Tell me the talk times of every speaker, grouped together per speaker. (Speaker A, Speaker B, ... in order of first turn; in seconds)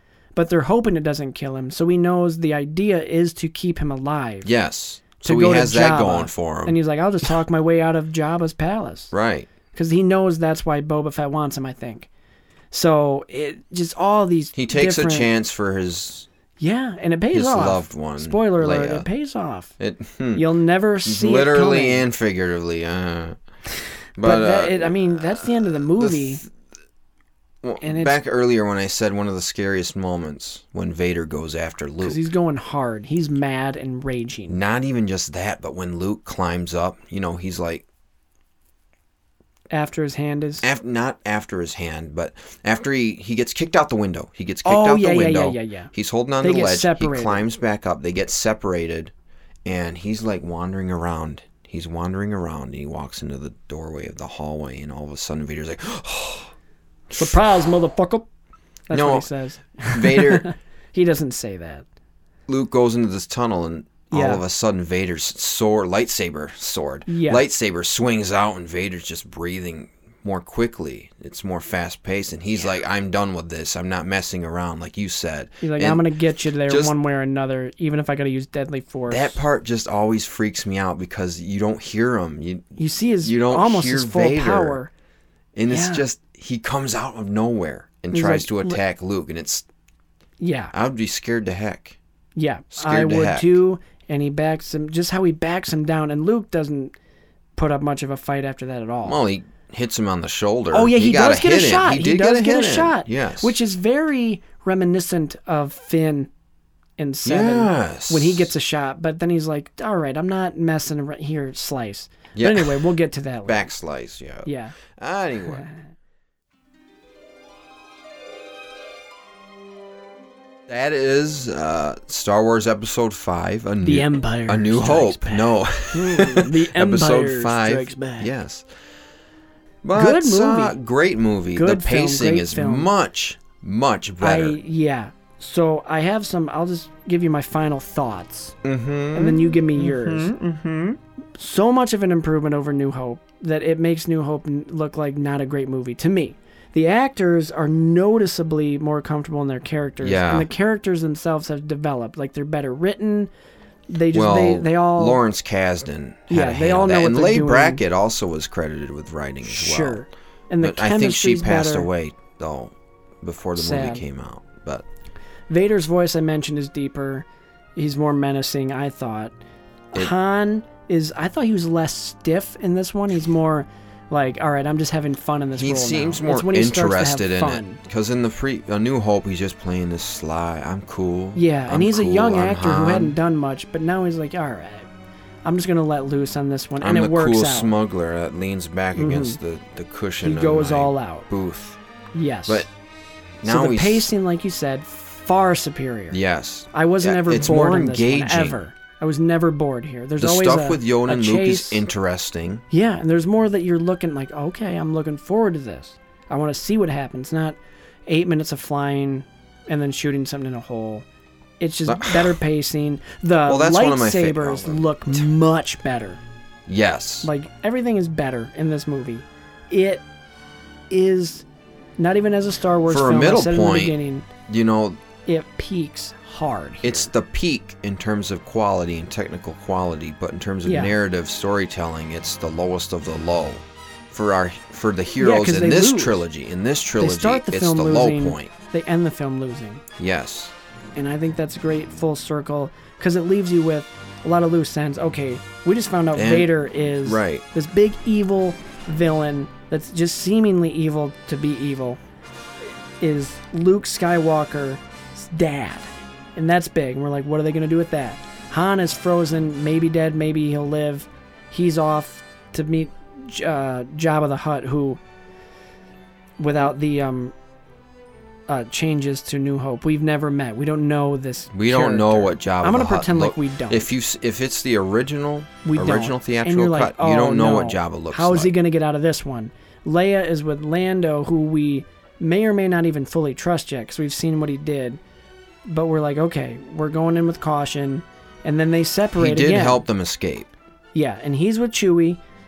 Speaker A: 0.3-4.5, 5.2-9.1, 9.7-12.1, 12.7-15.3, 16.6-19.7, 20.3-22.0, 24.2-26.4, 27.8-28.2, 32.0-34.6, 39.7-40.7, 44.6-47.4, 57.1-58.3, 58.9-61.8, 64.1-64.4, 67.1-67.4, 75.6-79.4, 82.8-84.9, 85.7-86.0, 88.1-88.8, 90.4-90.7, 92.3-96.9, 97.5-99.2, 100.7-106.3, 107.0-113.7, 114.4-114.8, 123.8-128.3, 129.9-130.8, 131.5-132.9, 134.2-138.6, 139.1-153.3, 153.9-155.2, 156.3-157.8, 159.4-161.9, 163.6-164.0, 165.5-169.3, 169.9-177.8, 181.3-184.9, 185.4-187.7, 188.9-189.4, 190.2-191.3, 192.1-192.7, 193.4-196.2, 196.7-201.8, 202.7-211.1, 211.6-216.2, 217.2-220.1, 220.9-221.4, 222.0-224.3, 225.2-227.1, 230.6-230.9, 235.2-236.2, 237.0-239.8, 240.9-252.0, 252.7-265.0, 266.4-267.3, 268.5-273.9, 275.6-285.0, 285.7-289.8, 290.9-292.2
Speaker B: 4.4-6.8, 9.1-9.5, 14.5-16.3, 17.3-19.1, 19.8-20.4, 21.0-23.4, 24.2-26.4, 27.6-32.2, 34.5-37.8, 40.6-49.1, 49.6-56.5, 57.1-57.4, 58.9-59.3, 59.8-60.5, 62.5-76.1, 76.7-76.9, 79.1-84.8, 85.5-89.7, 90.7-92.0, 92.7-93.6, 99.0-103.5, 107.2-108.5, 112.3-112.8, 113.5-115.7, 120.7-128.7, 129.8-134.6, 138.6-139.7, 150.0-150.5, 154.1-160.0, 160.6-164.8, 175.5-183.2, 186.8-191.8, 193.4-194.1, 196.1-198.6, 200.2-202.6, 211.8-212.4, 213.5-215.2, 216.7-217.3, 222.9-223.9, 224.5-225.0, 226.8-238.5, 240.0-240.5, 246.1-246.5, 247.0-247.4, 271.5-278.5, 289.2-290.5